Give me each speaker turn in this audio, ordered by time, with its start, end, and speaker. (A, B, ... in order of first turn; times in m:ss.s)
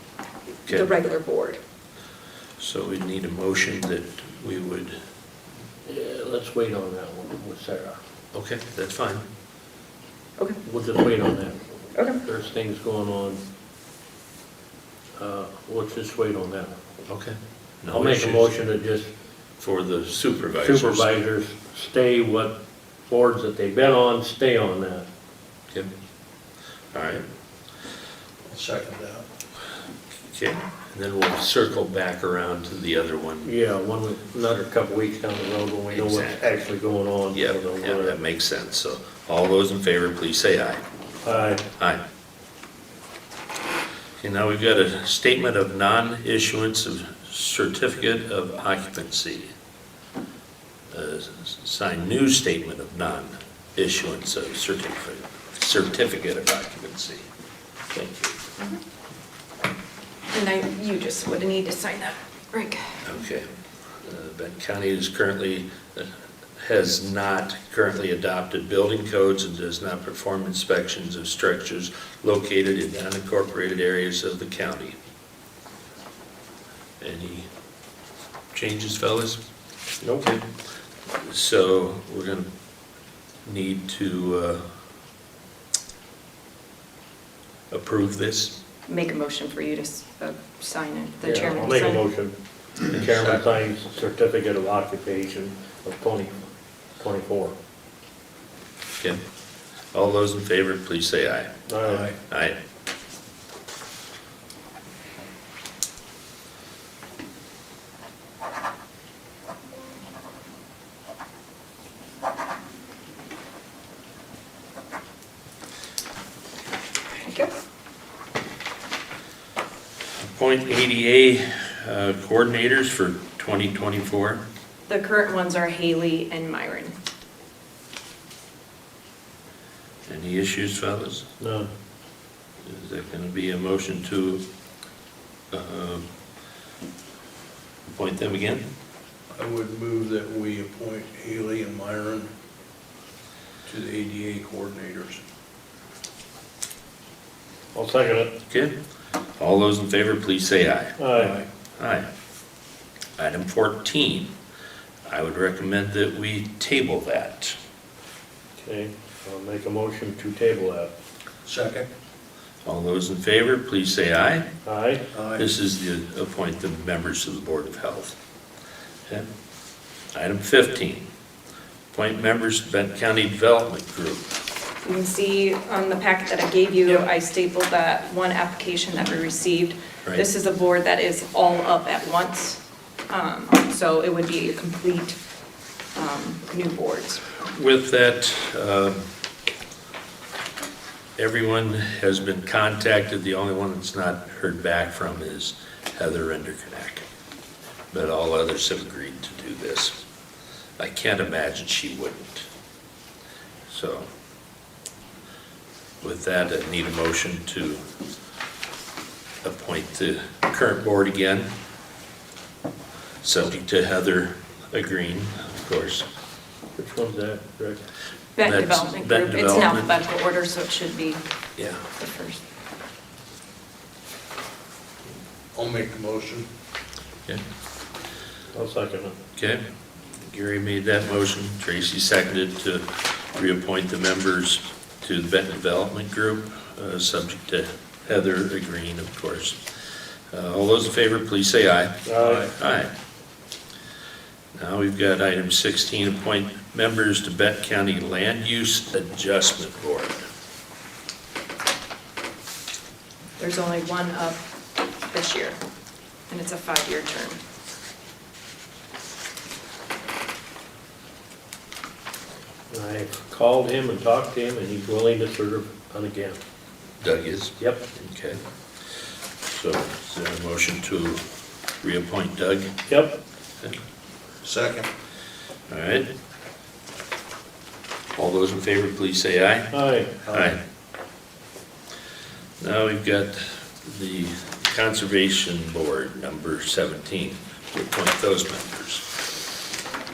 0:00.7-0:01.6 A
0:02.6-0:04.9 B
0:05.8-0:08.0 C
0:08.3-0:09.2 B
0:10.6-0:11.6 C
0:12.0-0:12.2 A
0:12.1-0:13.4 C
0:15.2-0:16.8 C
0:17.0-0:18.5 B
0:17.9-0:19.1 C
0:19.6-0:21.1 B
0:20.6-0:25.1 C
0:26.9-0:27.2 B
0:28.5-0:29.2 D
0:30.3-0:33.5 B
0:33.4-0:38.2 C
0:35.9-0:36.4 B
0:37.3-0:40.8 B
0:41.2-0:41.6 C
0:44.2-0:49.5 B
0:50.9-0:57.2 B
0:57.9-0:58.3 B
1:00.3-1:03.0 A
1:03.0-1:03.4 B
1:04.0-1:14.9 B
1:17.0-1:17.5 B
1:18.5-1:19.4 B
1:20.0-1:20.3 C
1:21.2-1:22.4 B
1:23.4-1:24.6 B
1:27.7-1:28.6 B
1:28.9-1:32.0 A
1:31.2-1:36.5 C
1:32.9-1:33.4 D
1:37.0-1:37.5 C
1:39.9-1:41.5 B
1:41.7-1:42.1 C
1:41.9-1:42.2 D
1:42.3-1:42.6 B
1:57.2-1:57.5 A
2:00.2-2:04.4 B
2:04.9-2:07.0 A
2:10.1-2:11.2 B
2:11.4-2:11.7 C
2:12.6-2:14.4 B
2:15.5-2:16.0 B
2:17.9-2:18.6 B
2:19.3-2:22.3 D
2:23.7-2:25.2 D
2:27.7-2:28.3 C
2:29.4-2:31.0 B
2:31.0-2:31.4 C
2:31.2-2:31.5 D
2:31.8-2:32.1 B
2:33.2-2:34.3 B
2:35.1-2:37.6 B
2:38.6-2:40.9 C
2:41.4-2:41.9 D
2:42.6-2:44.5 B
2:44.7-2:45.0 C
2:45.1-2:45.5 D
2:45.3-2:48.2 B
2:50.1-2:51.0 B
2:51.9-2:54.3 B
2:54.8-3:05.2 A
3:06.0-3:07.2 A
3:07.4-3:09.1 B
3:11.2-3:17.0 B
3:17.9-3:20.0 B
3:20.8-3:22.5 B
3:23.7-3:24.1 B
3:26.0-3:27.8 B
3:29.4-3:31.5 B
3:33.2-3:36.0 B
3:36.8-3:37.8 C
3:38.4-3:41.2 A
3:38.4-3:39.9 B
3:42.0-3:42.4 A
3:45.6-3:46.5 D
3:48.5-3:49.2 C
3:49.4-3:49.6 B
3:50.2-3:59.6 B
4:00.3-4:02.9 B
4:02.1-4:02.4 C
4:04.6-4:10.2 B
4:13.4-4:14.5 A
4:15.1-4:15.6 A
4:16.3-4:17.4 A
4:22.7-4:26.4 C
4:27.0-4:28.4 B
4:29.5-4:31.2 B
4:31.8-4:32.7 B
4:32.9-4:33.2 C
4:34.4-4:34.9 D
4:35.7-4:36.1 B
4:38.2-4:39.8 B
4:39.7-4:40.3 C
4:40.3-4:40.6 B
4:42.6-4:49.2 B